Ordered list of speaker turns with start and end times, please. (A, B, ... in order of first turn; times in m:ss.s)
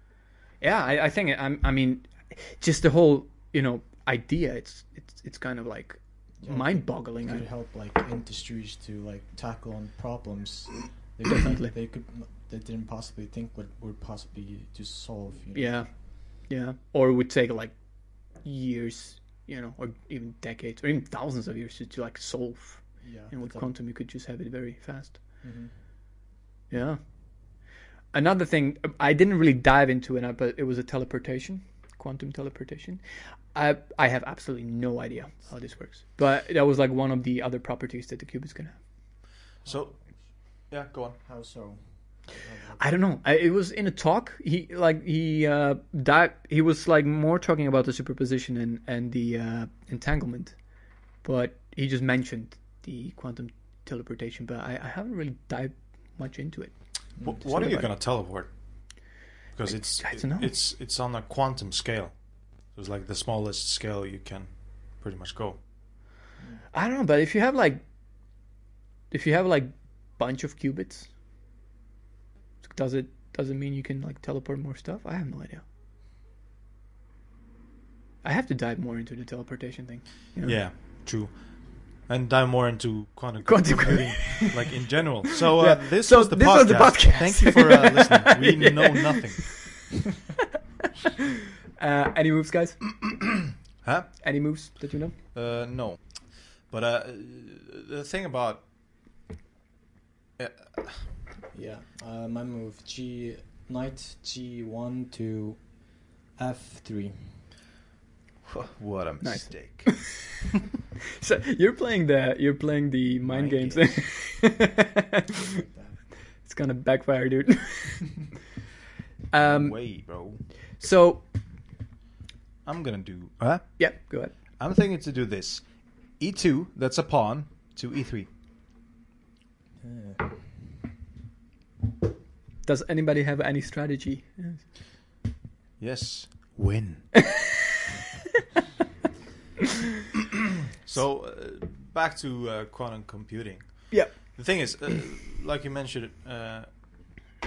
0:00.6-0:07.4 A
0:06.4-0:15.9 B
0:15.5-0:25.4 A
0:23.0-0:23.7 B
0:25.4-0:25.7 B
0:26.7-0:38.8 A
0:39.6-0:41.2 C
0:39.6-0:40.3 B
0:41.2-0:43.0 B
0:42.8-0:57.9 A
0:57.2-0:57.6 B
0:57.2-1:05.6 C
0:59.7-1:00.5 A
1:06.4-1:06.6 B
1:06.7-1:07.8 A
1:09.1-1:11.1 A
1:12.6-1:15.6 A
1:18.2-1:20.6 A
1:20.4-1:29.9 C
1:23.4-1:24.6 A
1:25.6-1:28.8 A
1:31.8-1:33.1 A
1:33.8-1:38.7 C
1:34.2-1:35.2 A
1:40.4-1:41.2 C
1:41.5-1:47.5 B
1:48.4-1:50.3 C
1:49.2-1:50.1 A
1:51.2-1:55.2 A
1:53.3-1:54.0 C
1:55.3-1:56.0 B
1:56.3-1:58.3 A
1:59.3-2:01.3 A
1:59.4-2:00.6 C
2:02.6-2:08.3 C
2:03.8-2:04.3 A
2:09.8-2:10.6 B
2:12.6-2:14.7 A
2:15.8-2:17.2 C
2:20.8-2:26.7 C
2:23.9-2:24.7 A